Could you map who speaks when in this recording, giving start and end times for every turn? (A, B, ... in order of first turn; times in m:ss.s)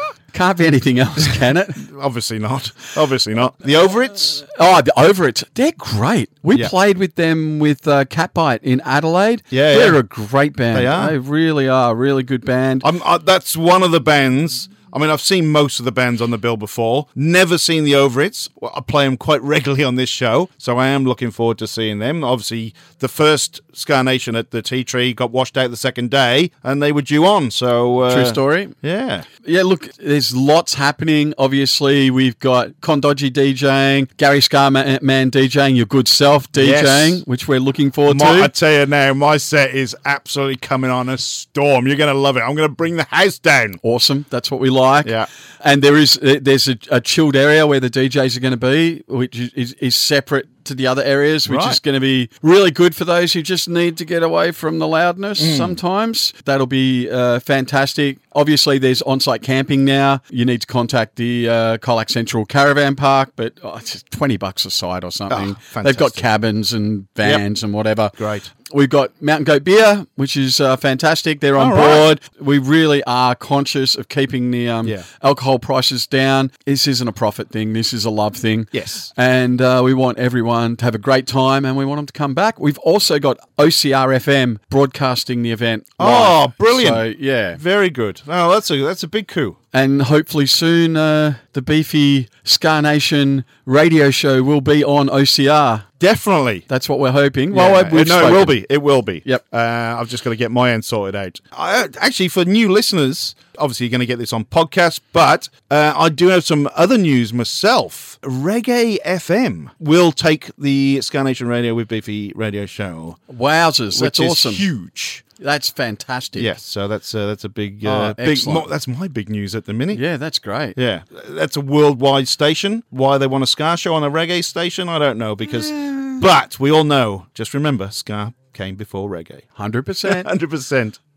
0:00.3-0:01.8 A
0:01.8-0:04.4 B
0:04.4-0:12.9 A
0:09.5-0:10.0 B
0:10.7-0:11.1 B
0:12.8-0:29.3 B
0:28.1-0:28.7 A
0:29.4-0:38.5 A
0:36.6-0:37.2 B
0:38.0-0:43.8 B
0:43.8-1:27.6 A
0:51.4-0:51.8 B
0:55.4-0:55.8 B
1:05.3-1:06.2 B
1:08.2-1:08.5 B
1:11.6-1:12.1 B
1:18.7-1:19.1 B
1:26.0-1:29.6 B
1:29.7-1:35.9 A
1:36.0-1:36.6 B
1:36.7-1:38.6 A
1:37.5-1:53.2 B
1:53.3-1:54.6 A
1:53.9-1:55.2 B
1:55.4-1:56.5 A
1:56.4-2:00.0 B
1:57.8-1:58.7 A
1:59.9-2:00.8 A
2:00.8-2:09.5 B
2:05.6-2:06.2 A
2:09.6-2:10.3 A
2:10.0-2:11.0 B